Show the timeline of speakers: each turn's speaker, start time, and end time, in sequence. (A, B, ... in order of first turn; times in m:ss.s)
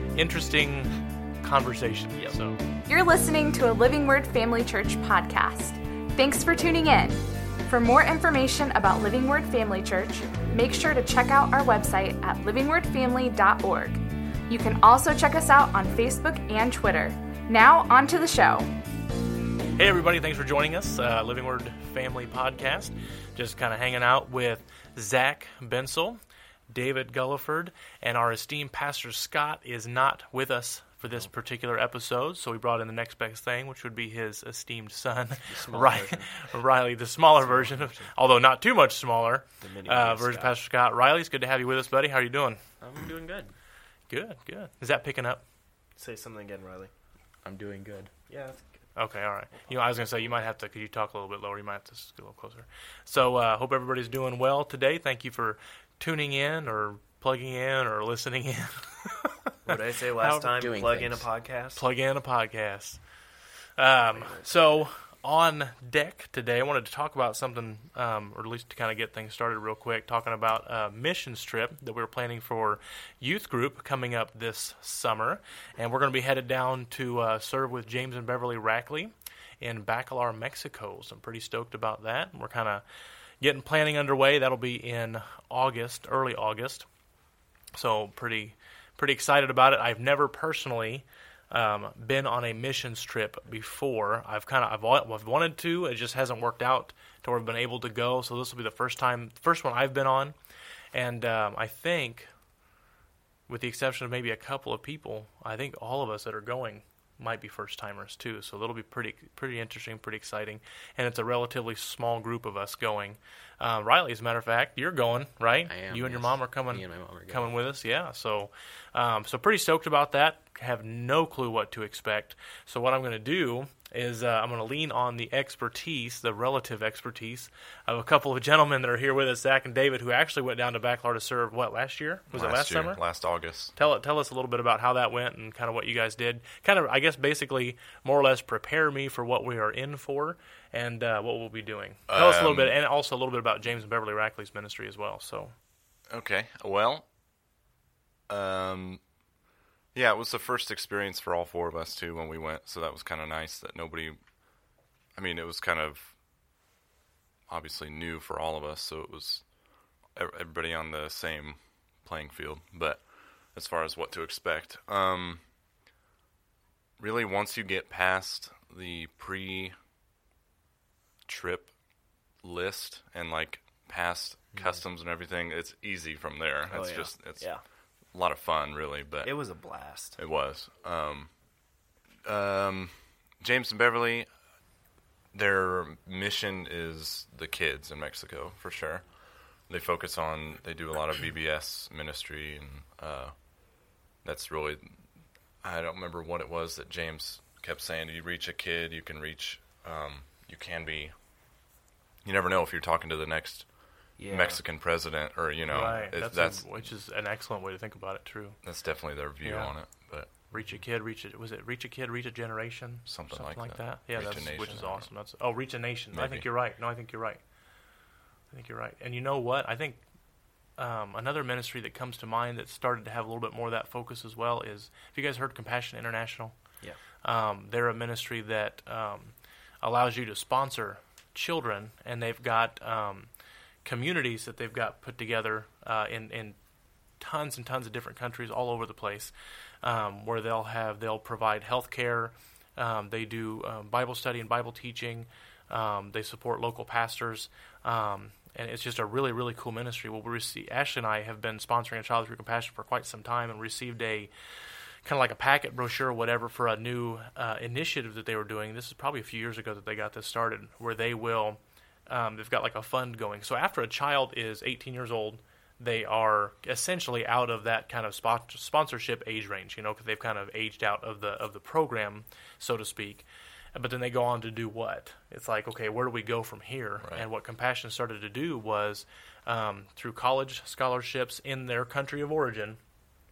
0:00.2-0:02.6 A
0:02.9-0:18.7 B
0:19.8-0:42.6 A
0:35.5-0:36.3 C
0:37.4-0:38.1 D
0:39.6-0:40.6 D
0:42.8-0:43.5 C
0:44.1-0:45.4 A
0:46.0-0:46.9 D
0:47.4-0:48.1 C
0:48.3-0:48.7 D
0:49.0-1:00.6 A
0:59.6-1:01.8 D
1:00.5-1:01.3 C
1:01.8-1:03.0 A
1:03.8-1:22.8 A
1:04.1-1:04.6 D
1:23.4-1:26.9 A
1:27.7-1:40.4 A
1:40.9-1:42.3 A
1:43.5-2:13.0 A
1:55.7-1:57.6 C
2:12.3-2:13.7 E
2:13.8-2:25.5 A
2:22.1-2:22.8 E
2:26.1-2:27.0 E
2:28.3-2:29.0 E
2:30.0-2:34.2 E
2:35.2-2:36.1 E
2:37.5-2:39.4 E
2:40.2-2:45.4 E
2:47.0-2:49.8 E
2:51.3-2:51.7 E
2:52.4-2:57.5 E
2:56.7-2:57.6 D
2:58.1-2:59.3 E
2:59.2-3:00.2 D
3:00.2-3:01.3 E
3:02.2-3:04.3 E
3:05.3-3:09.0 E
3:09.7-3:13.3 E
3:14.2-3:14.9 E
3:15.6-3:21.1 E
3:22.2-3:26.8 E
3:24.2-3:24.6 D
3:25.7-3:28.6 A
3:28.6-3:30.5 E
3:29.4-3:29.8 A
3:30.5-3:37.4 A
3:33.1-3:35.1 E
3:36.1-3:36.5 E
3:38.5-3:40.0 A
3:40.8-3:46.6 A
3:47.2-3:53.3 A
3:53.8-3:56.6 A
3:57.2-3:59.3 A
3:59.8-4:14.3 A
4:15.0-4:42.8 A